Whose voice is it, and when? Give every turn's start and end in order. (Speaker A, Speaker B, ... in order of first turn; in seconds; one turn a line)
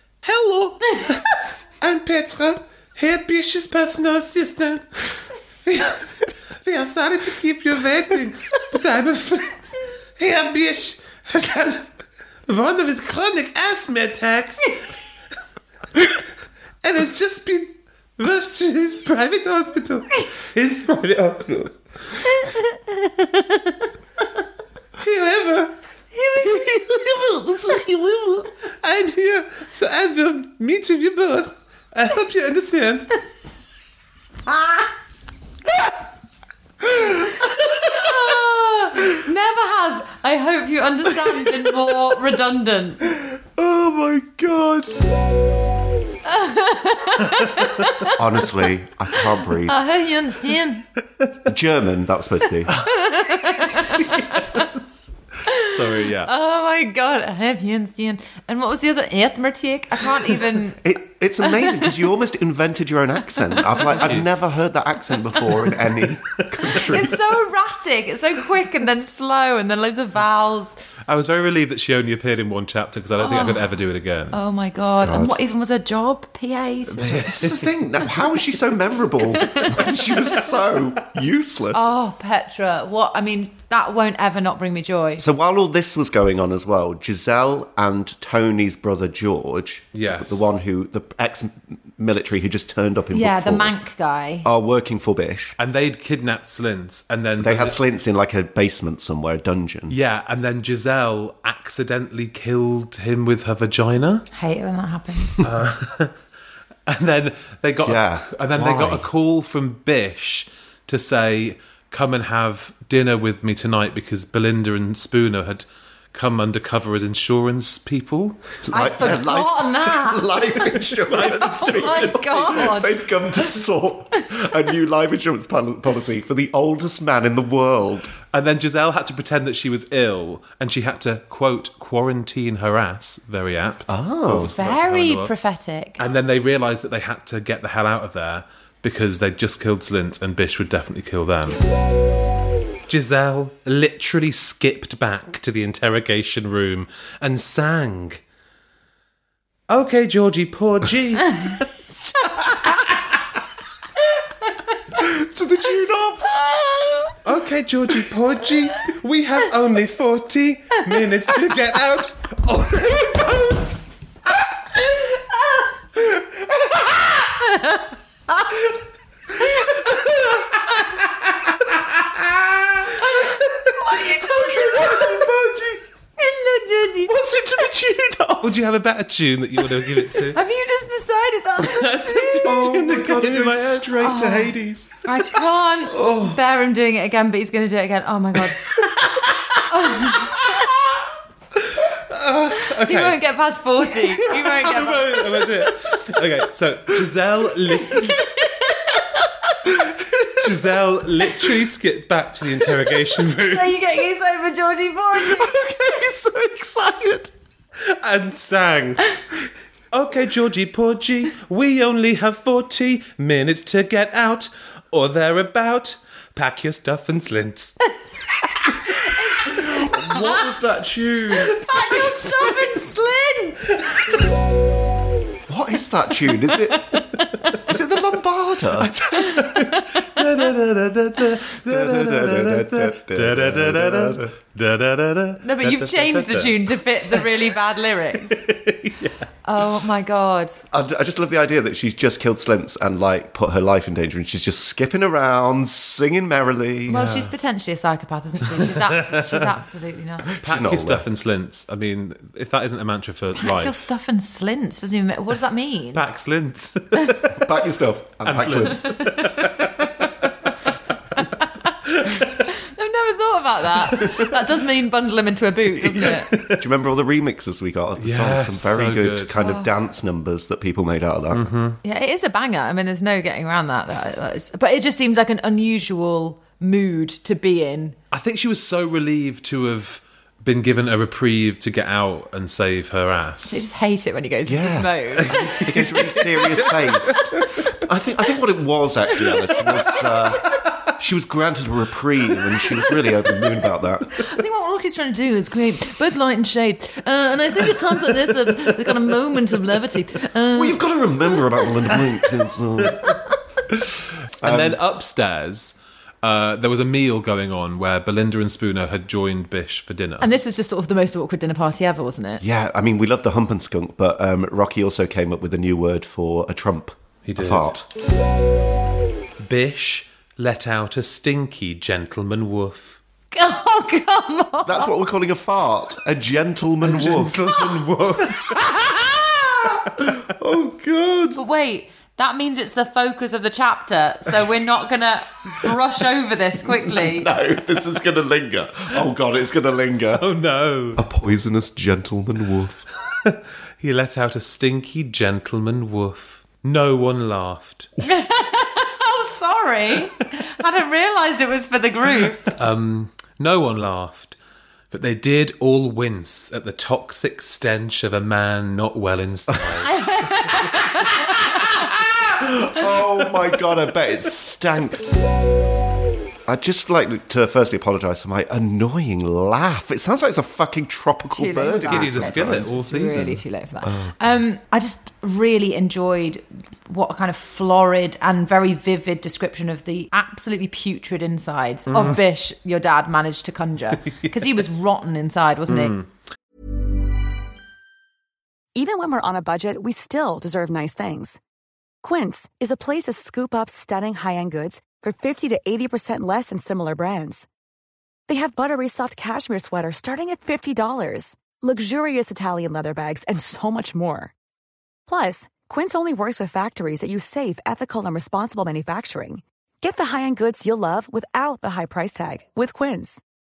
Speaker A: 0.2-5.0
Speaker A: 5.7-6.1
Speaker A: 6.6-11.9
Speaker A: 12.5-14.9
Speaker A: 16.8-22.5
Speaker B: 22.3-23.4
Speaker A: 25.0-25.8
Speaker B: 26.1-27.0
Speaker C: 26.4-28.5
Speaker A: 28.8-33.1
Speaker B: 34.5-34.9
Speaker C: 36.9-37.9
Speaker B: 37.5-43.0
Speaker C: 43.1-45.0
Speaker B: 46.3-48.2
Speaker C: 48.2-49.8
Speaker B: 49.7-50.9
Speaker C: 51.5-52.7
Speaker A: 52.8-54.7
Speaker B: 52.8-54.7
Speaker A: 55.5-56.3
Speaker B: 56.2-60.8
Speaker C: 60.8-67.2
Speaker B: 61.4-61.9
Speaker A: 63.9-64.3
Speaker A: 66.6-66.9
Speaker B: 66.7-70.8
Speaker A: 71.1-74.4
Speaker B: 73.2-73.7
Speaker B: 74.3-77.4
Speaker C: 75.0-75.4
Speaker C: 77.0-81.9
Speaker A: 77.0-77.7
Speaker B: 79.4-79.8
Speaker B: 81.7-85.2
Speaker C: 85.2-93.7
Speaker A: 89.9-90.5
Speaker B: 93.1-94.5
Speaker C: 94.4-95.5
Speaker A: 95.6-97.8
Speaker C: 97.4-100.0
Speaker A: 99.9-104.3
Speaker B: 104.3-105.4
Speaker A: 105.4-106.2
Speaker A: 106.9-118.6
Speaker C: 107.8-109.1
Speaker C: 118.7-128.1
Speaker B: 118.7-120.4
Speaker A: 120.9-122.8
Speaker B: 121.4-123.5
Speaker A: 128.3-135.3
Speaker C: 133.9-134.5
Speaker B: 134.5-136.0
Speaker A: 136.0-141.6
Speaker A: 142.9-148.2
Speaker A: 149.7-151.7
Speaker C: 155.0-156.4
Speaker B: 156.3-157.2
Speaker A: 157.2-163.9
Speaker C: 166.1-167.4
Speaker C: 169.4-170.5
Speaker B: 173.0-175.2
Speaker C: 173.9-175.8
Speaker B: 176.2-177.1
Speaker C: 177.1-178.6
Speaker A: 178.4-180.4
Speaker B: 180.3-182.7
Speaker A: 181.6-184.0
Speaker C: 182.4-185.0
Speaker B: 184.0-188.8
Speaker C: 185.8-186.4
Speaker A: 188.8-190.4
Speaker B: 189.6-190.5
Speaker A: 191.8-193.2
Speaker B: 192.7-195.4
Speaker A: 194.2-198.2
Speaker B: 197.9-199.1
Speaker C: 199.8-200.5
Speaker A: 200.4-203.8
Speaker B: 203.4-205.6
Speaker C: 205.2-207.3
Speaker A: 207.8-209.4
Speaker A: 209.9-217.8
Speaker B: 219.0-220.4
Speaker C: 219.5-222.7
Speaker B: 221.5-223.6
Speaker C: 225.5-227.0
Speaker B: 226.7-227.6
Speaker C: 227.6-228.9
Speaker A: 228.8-237.4
Speaker B: 229.2-230.2
Speaker C: 231.5-234.3
Speaker B: 235.4-238.4
Speaker A: 238.3-239.2
Speaker B: 239.5-240.7
Speaker C: 240.7-247.0
Speaker B: 246.9-250.3
Speaker A: 246.9-247.3
Speaker A: 248.6-249.5
Speaker C: 250.3-251.1
Speaker A: 250.4-253.8
Speaker B: 253.4-256.0
Speaker A: 255.9-257.5
Speaker C: 257.3-258.9
Speaker A: 258.2-260.3
Speaker B: 258.9-259.4
Speaker A: 261.9-262.4
Speaker B: 262.5-266.3
Speaker A: 264.0-264.2
Speaker A: 265.8-266.6
Speaker C: 266.5-271.5
Speaker A: 268.0-269.3
Speaker B: 269.4-269.7
Speaker A: 271.3-271.8
Speaker B: 271.8-278.0
Speaker A: 278.1-283.6
Speaker B: 283.5-285.6
Speaker C: 284.5-294.2
Speaker A: 285.2-287.4
Speaker B: 294.1-301.9
Speaker C: 300.5-303.1
Speaker A: 304.4-310.3
Speaker C: 304.4-304.8
Speaker B: 310.2-312.4
Speaker C: 312.4-317.8
Speaker A: 317.2-317.8
Speaker A: 319.4-323.0
Speaker B: 323.3-324.9
Speaker C: 324.6-327.5
Speaker A: 326.8-328.5
Speaker C: 328.6-329.0
Speaker C: 329.6-331.4
Speaker B: 331.4-337.3
Speaker C: 336.6-340.3
Speaker A: 340.1-341.0
Speaker C: 340.9-342.9
Speaker A: 343.2-347.9
Speaker B: 348.0-352.5
Speaker A: 352.5-354.4
Speaker A: 354.9-360.0
Speaker B: 359.8-362.0
Speaker C: 361.5-365.0
Speaker C: 366.4-372.7
Speaker B: 371.3-386.0
Speaker A: 371.9-373.4
Speaker C: 373.8-374.4
Speaker A: 381.9-382.2
Speaker A: 385.7-386.1
Speaker D: 388.8-391.4
Speaker D: 392.0-397.5
Speaker D: 398.3-404.3
Speaker D: 405.1-413.2